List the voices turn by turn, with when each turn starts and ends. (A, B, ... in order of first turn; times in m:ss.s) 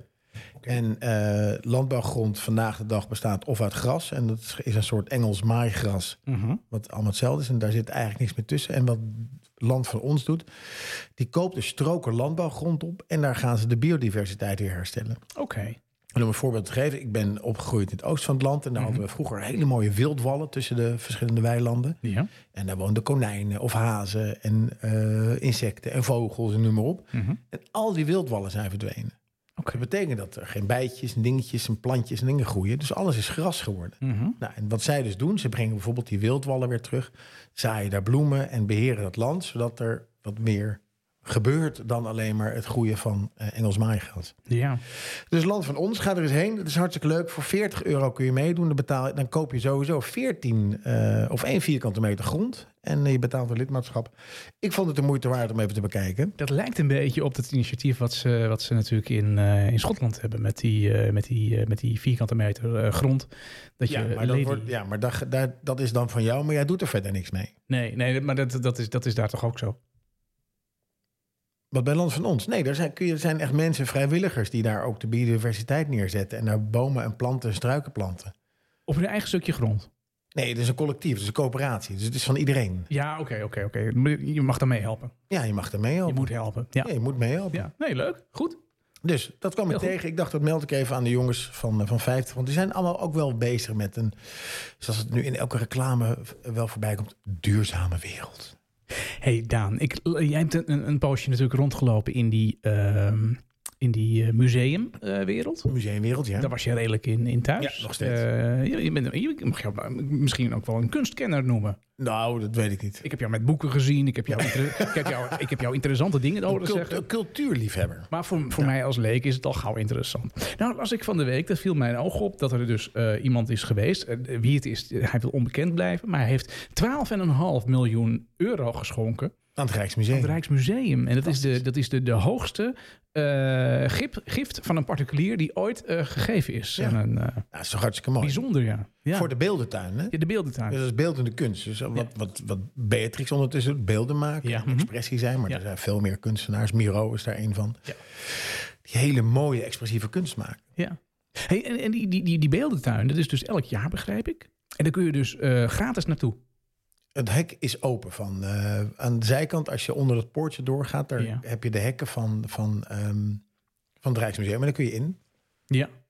0:00.6-0:15.2 A
0:06.3-0:06.6 B
0:15.3-0:15.8 B
0:16.2-0:22.0 A
0:22.0-0:22.3 B
0:22.5-0:29.2 A
0:27.1-0:27.4 B
0:29.7-0:44.3 A
0:34.0-0:34.4 B
0:44.5-0:44.8 B
0:45.3-0:56.4 A
0:56.4-1:04.7 B
1:03.9-1:07.5 A
1:07.7-1:09.8 B
1:11.7-1:18.3 A
1:18.9-1:19.9 B
1:20.3-1:22.9 A
1:22.9-1:25.2 B
1:25.3-1:27.7 A
1:26.1-1:26.9 B
1:27.5-1:28.6 B
1:29.0-1:34.2 A
1:34.8-1:38.6 A
1:39.2-1:45.7 B
1:45.7-1:46.5 A
1:46.4-1:51.8 B
1:47.6-1:48.2 A
1:52.0-1:53.0 A
1:53.0-1:57.0 B
1:54.3-1:55.3 A
1:56.5-1:58.7 A
1:58.1-2:09.3 B
2:09.6-2:10.4 A
2:10.1-2:17.4 B
2:11.2-2:11.6 A
2:17.5-2:18.4 A
2:18.2-2:19.3 B
2:19.1-2:20.2 A
2:20.1-2:20.8 B
2:20.7-2:30.6 A
2:24.4-2:24.9 B
2:30.8-2:36.4 B
2:37.2-2:43.4 A
2:41.2-2:41.4 B
2:44.0-2:45.2 A